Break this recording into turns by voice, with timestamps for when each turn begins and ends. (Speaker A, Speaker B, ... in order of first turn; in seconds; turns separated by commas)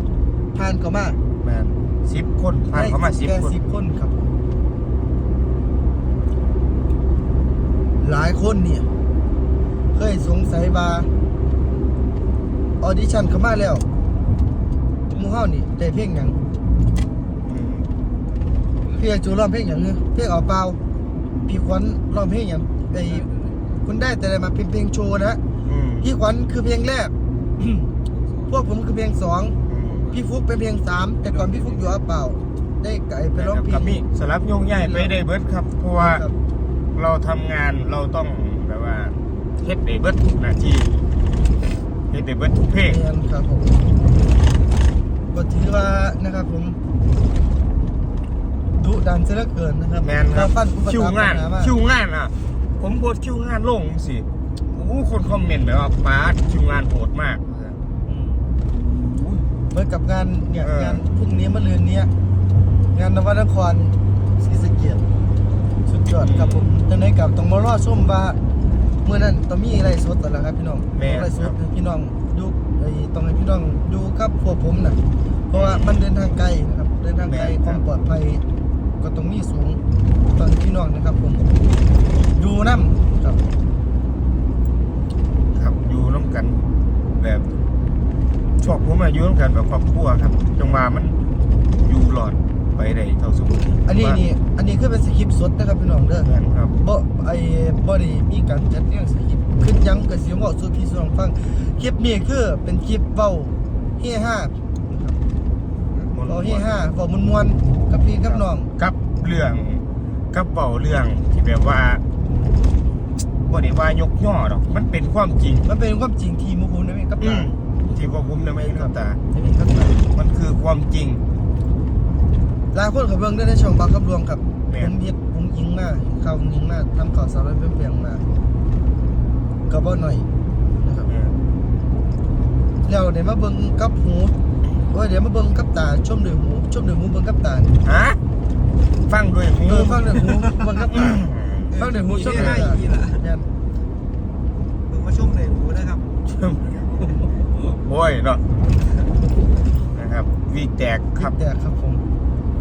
Speaker A: 0.5-1.2, Speaker B: 1.4-3.5, Speaker A: 2.7-4.3, Speaker A: 8.0-8.9, Speaker A: 9.9-11.1, Speaker A: 12.8-13.8, Speaker A: 15.1-16.4, Speaker B: 17.4-17.9, Speaker A: 18.9-20.8, Speaker A: 21.5-23.3, Speaker A: 23.8-25.4, Speaker B: 25.6-26.1, Speaker A: 26.0-27.9, Speaker A: 28.5-29.6, Speaker B: 29.7-30.1, Speaker A: 30.1-34.0, Speaker B: 33.4-36.2, Speaker A: 34.7-35.1, Speaker A: 36.0-36.3, Speaker B: 36.9-41.0, Speaker B: 42.1-43.0, Speaker A: 42.9-43.8, Speaker A: 45.3-46.8, Speaker A: 48.8-51.7, Speaker B: 50.0-57.8, Speaker A: 58.1-58.5, Speaker B: 59.0-59.5, Speaker A: 59.7-62.1, Speaker B: 60.6-61.0, Speaker A: 62.9-65.0, Speaker A: 65.9-68.4, Speaker B: 66.2-66.7, Speaker A: 69.0-78.4, Speaker B: 70.9-71.6, Speaker B: 75.5-76.0, Speaker B: 77.3-77.8, Speaker A: 79.0-79.8, Speaker A: 80.3-81.5, Speaker A: 82.3-83.5, Speaker B: 85.5-86.7, Speaker B: 87.2-87.5, Speaker B: 88.6-91.2, Speaker B: 91.8-94.2, Speaker A: 93.9-105.2, Speaker B: 96.2-96.8, Speaker B: 106.1-106.8, Speaker A: 106.3-108.7, Speaker B: 108.2-112.0, Speaker B: 113.5-115.7, Speaker A: 115.6-117.5, Speaker B: 117.2-119.2, Speaker A: 118.6-120.0, Speaker B: 120.0-121.2, Speaker A: 122.7-128.2, Speaker B: 124.7-124.9, Speaker A: 129.7-130.3, Speaker A: 130.8-131.1, Speaker B: 131.1-131.4, Speaker A: 132.8-134.3, Speaker A: 134.9-137.8, Speaker B: 137.8-138.2, Speaker B: 139.1-142.8, Speaker A: 139.7-143.5, Speaker C: 141.7-143.2, Speaker C: 144.9-146.1, Speaker B: 146.3-148.4, Speaker B: 149.9-151.4, Speaker A: 151.2-152.1